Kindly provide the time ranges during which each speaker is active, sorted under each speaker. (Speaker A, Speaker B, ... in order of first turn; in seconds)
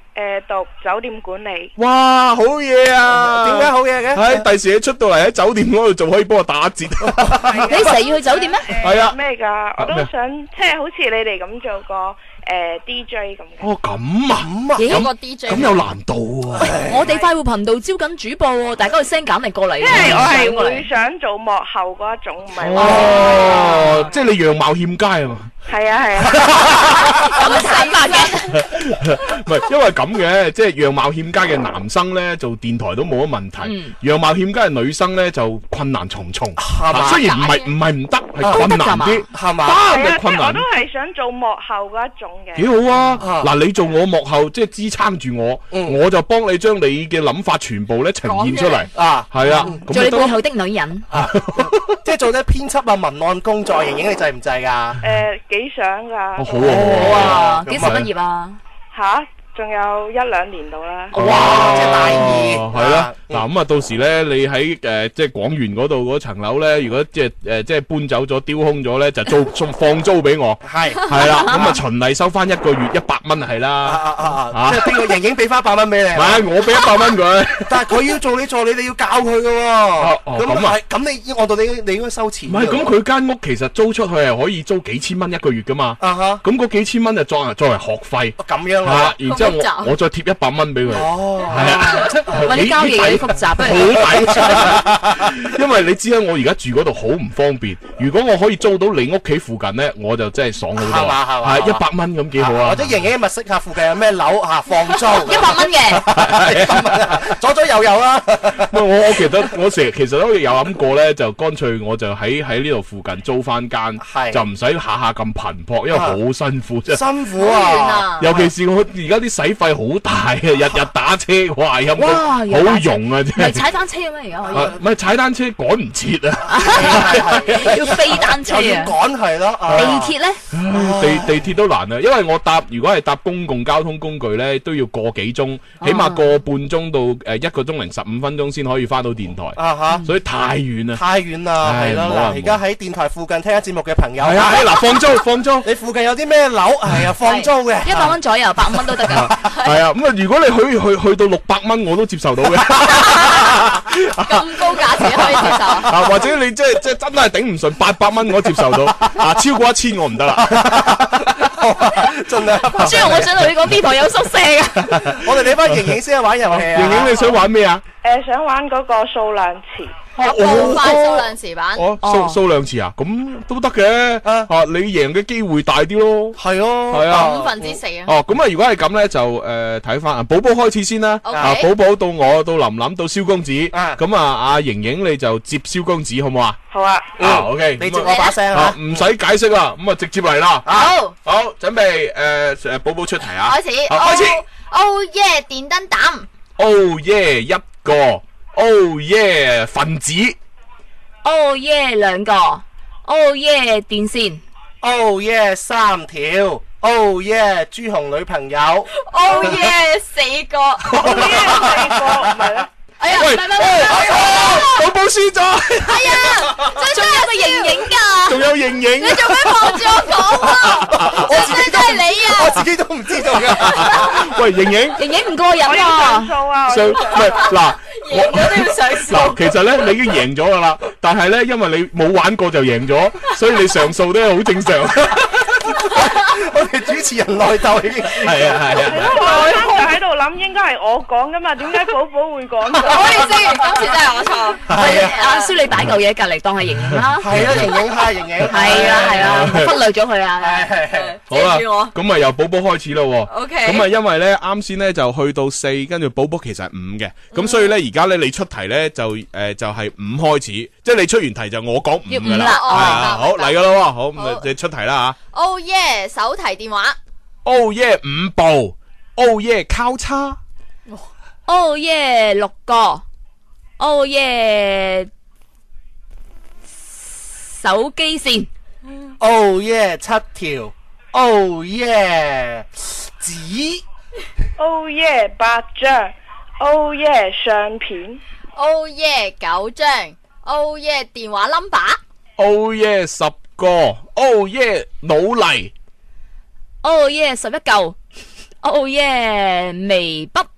Speaker A: 0.1-1.7, 7.4-13.7, 19.8-24.2, 25.7-26.9, 39.9-42.7, 55.0-56.7, 58.9-61.1, 168.0-170.0, 186.7-187.1, 211.0-212.7, 225.6-227.5, 238.9-243.3, 284.6-288.2
Speaker B: 1.8-7.3, 8.8-9.2, 9.8-10.1, 13.6-16.7, 19.9-20.2, 22.6-25.5, 26.2-27.2, 28.5-40.6, 42.5-50.4, 51.1-51.9, 56.4-58.1, 61.1-75.1, 76.1-77.7, 80.0-80.8, 82.5-102.9, 106.1-107.2, 108.6-117.0, 118.2-123.6, 124.5-127.7, 129.7-130.0, 130.5-141.0, 141.6-142.6, 144.2-145.7, 149.1-154.6, 155.1-161.0, 166.5-167.8, 170.2-176.4, 176.9-177.3, 178.0-186.6, 187.2-190.7, 191.2-194.4, 196.6-200.4, 210.9-211.9, 213.1-216.7, 218.3-221.3, 223.6-225.0, 226.7-235.5, 238.2-239.2, 249.0-249.7, 251.3-265.1, 267.4-270.4, 292.4-295.7
Speaker C: 3.1-4.4, 7.1-7.9, 14.4-15.0, 16.6-17.0, 22.8-23.8, 36.6-37.3, 38.4-38.7, 39.3-39.8, 43.2-43.5, 45.7-46.0, 48.9-50.0, 51.1-55.0, 56.6-58.1, 61.1-63.4, 70.6-71.8, 73.8-76.4, 77.7-82.9, 86.0-86.4, 88.4-89.2, 90.9-95.2, 100.8-101.8, 102.4-108.7, 114.0-114.4, 115.9-116.2, 116.9-118.5, 126.5-130.1, 130.7-131.4, 139.6-140.0, 140.9-145.0, 145.6-148.2, 148.7-149.3, 155.4-156.0, 160.4-163.3, 165.0-167.4, 174.2-174.5, 176.4-177.8, 181.3-181.6, 183.7-184.0, 187.2-189.0, 190.7-190.9, 204.8-208.9, 213.8-214.3, 220.9-224.2, 235.9-239.0, 244.7-245.1, 247.2-249.7, 250.4-251.1, 279.2-283.8
Speaker D: 7.7-8.8, 14.8-15.6, 16.7-20.9, 23.7-24.0, 27.1-28.6, 33.6-33.9, 38.4-39.2, 42.9-43.2, 49.4-51.0, 56.8-58.6, 61.2-61.8, 92.4-94.1, 105.1-106.1, 122.0-124.7, 126.5-128.9, 129.7-130.4, 135.8-136.3, 147.2-149.4, 162.7-165.1, 172.0-172.4, 201.2-204.4, 213.0-214.5, 216.8-218.4, 225.0-226.3, 244.7-247.6, 248.4-250.7, 262.1-263.1, 271.5-273.0, 273.8-275.1, 277.3-278.5, 296.8-297.9, 298.6-300.5
Speaker E: 14.8-15.7, 27.2-28.4, 37.0-37.7, 48.2-48.9, 89.2-89.9, 117.4-118.2, 149.4-149.7, 152.9-153.6, 154.2-155.9, 170.2-171.9, 177.1-178.1, 181.2-181.7, 188.0-188.4, 190.7-191.1, 193.4-196.2, 209.0-210.9, 214.0-214.7, 215.8-217.9, 219.0-222.6, 227.9-229.4, 242.9-245.5, 250.8-251.9, 253.3-253.9, 257.3-257.7, 262.2-263.6, 264.1-264.4, 265.3-267.0, 288.6-292.0